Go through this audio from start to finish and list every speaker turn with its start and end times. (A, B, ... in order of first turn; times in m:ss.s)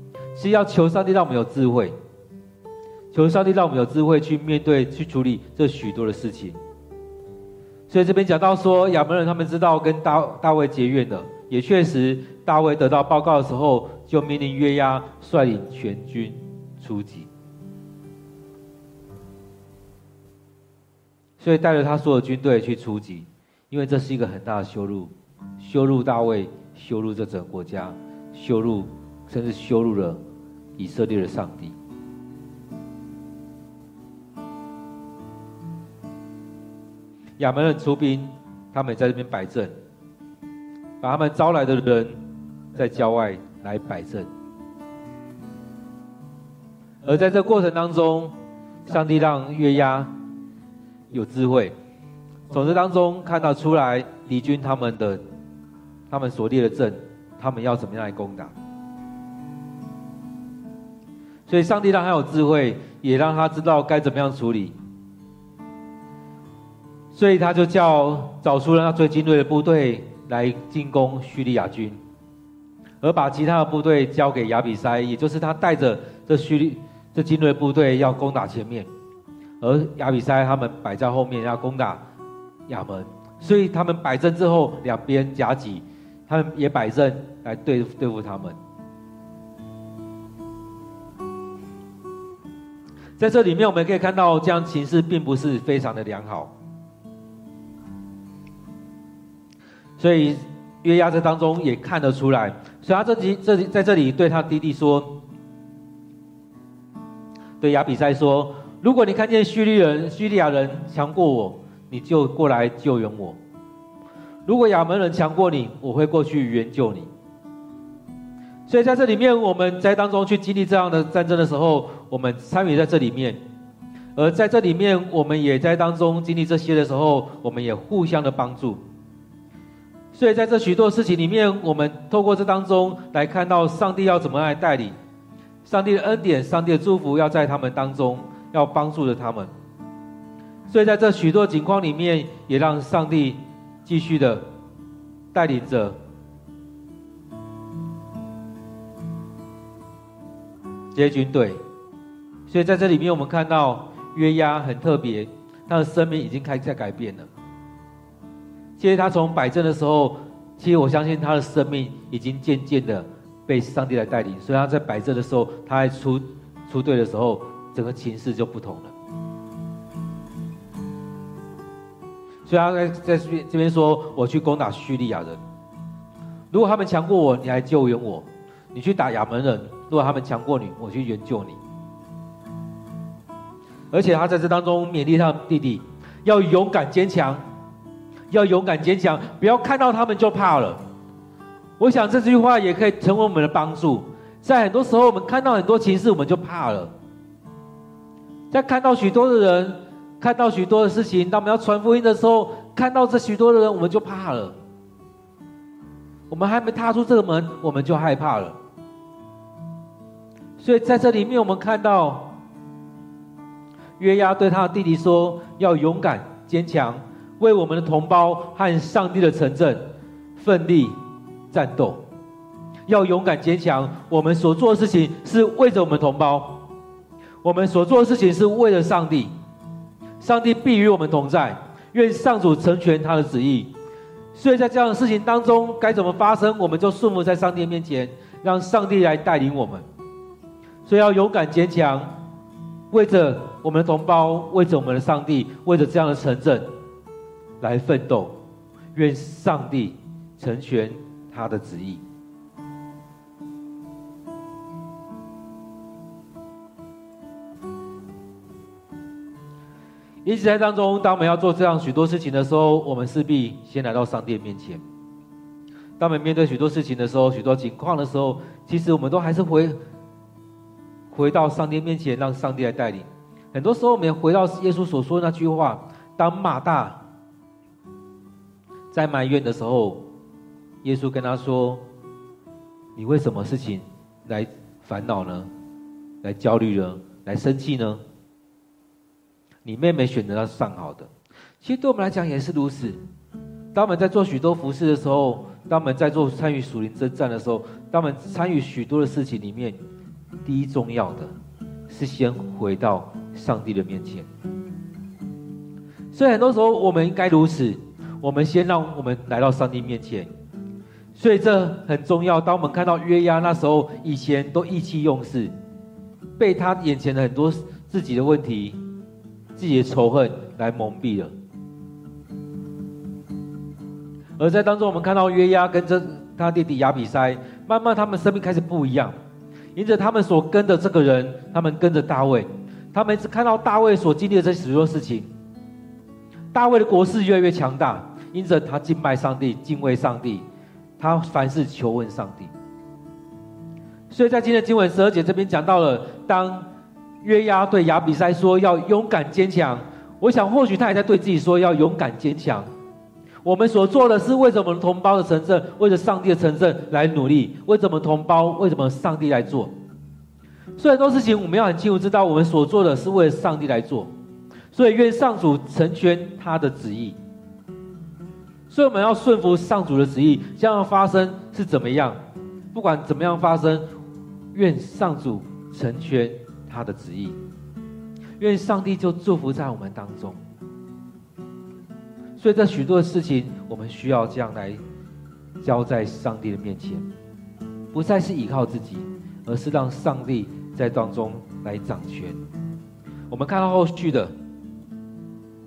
0:00.3-0:02.0 A
0:03.1-0:06.6 A
0:07.9-0:17.3 A
0:21.4-0:30.2 A
0:30.8-0:31.8 A
0:37.4-0:39.7 A
0:41.0-0:42.2 A
0:42.7-0:44.3 A
0:47.0-0:48.3 A
0:48.8-0:50.1 A
0:51.1-0:51.7 A
0:52.5-0:55.2 A
0:56.1-0:58.5 A
1:01.5-1:04.8 A
1:07.1-1:12.0 A
1:13.0-1:18.9 A
1:19.6-1:22.0 A
1:22.7-1:28.6 A
1:33.2-1:36.5 A
1:40.0-1:45.1 A
1:47.6-1:53.4 A
1:54.4-1:57.1 A
1:58.7-2:03.4 A
2:04.2-2:08.8 A
2:10.1-2:15.0 A
2:15.6-2:19.5 A
2:20.7-2:24.4 A
2:25.3-2:26.0 A
2:30.9-2:31.6 A
2:32.5-2:37.3 A
2:38.8-2:48.9 A
2:52.4-2:55.4 A
2:56.5-3:01.6 A
3:03.9-3:07.4 A
3:08.3-3:10.8 A
3:11.8-3:16.9 A
3:18.5-3:24.6 A
3:26.3-3:28.6 A
3:30.6-3:32.4 A
3:34.0-3:40.9 A
3:41.5-3:42.0 A
3:42.9-3:46.7 A
3:47.4-3:49.3 A
3:50.2-3:53.7 A
3:54.3-3:59.8 A
4:00.8-4:02.1 A
4:02.9-4:06.7 A
4:07.6-4:08.3 A
4:08.9-4:12.0 A
4:20.2-4:24.8 A
4:26.0-4:29.8 A
4:31.1-4:37.0 A
4:38.9-4:40.0 A
4:40.8-4:41.8 A
4:43.0-4:45.5 A
4:46.2-4:48.0 A
4:49.6-4:51.1 A
4:51.6-4:53.0 A
4:53.7-4:59.8 A
5:00.4-5:01.3 A
5:01.9-5:04.3 A
5:06.1-5:10.3 A
5:11.1-5:15.5 A
5:16.4-5:18.8 A
5:19.5-5:21.3 A
5:24.4-5:29.1 A
5:29.7-5:35.3 A
5:36.5-5:40.4 A
5:41.0-5:42.5 A
5:44.1-5:46.7 A
5:47.2-5:52.7 A
5:53.4-5:59.7 A
6:00.8-6:04.1 A
6:04.7-6:07.2 A
6:08.7-6:12.2 A
6:12.7-6:13.8 A
6:14.5-6:17.4 A
6:18.4-6:20.4 A
6:22.4-6:24.8 A
6:25.6-6:27.0 A
6:27.9-6:32.4 A
6:33.3-6:34.3 A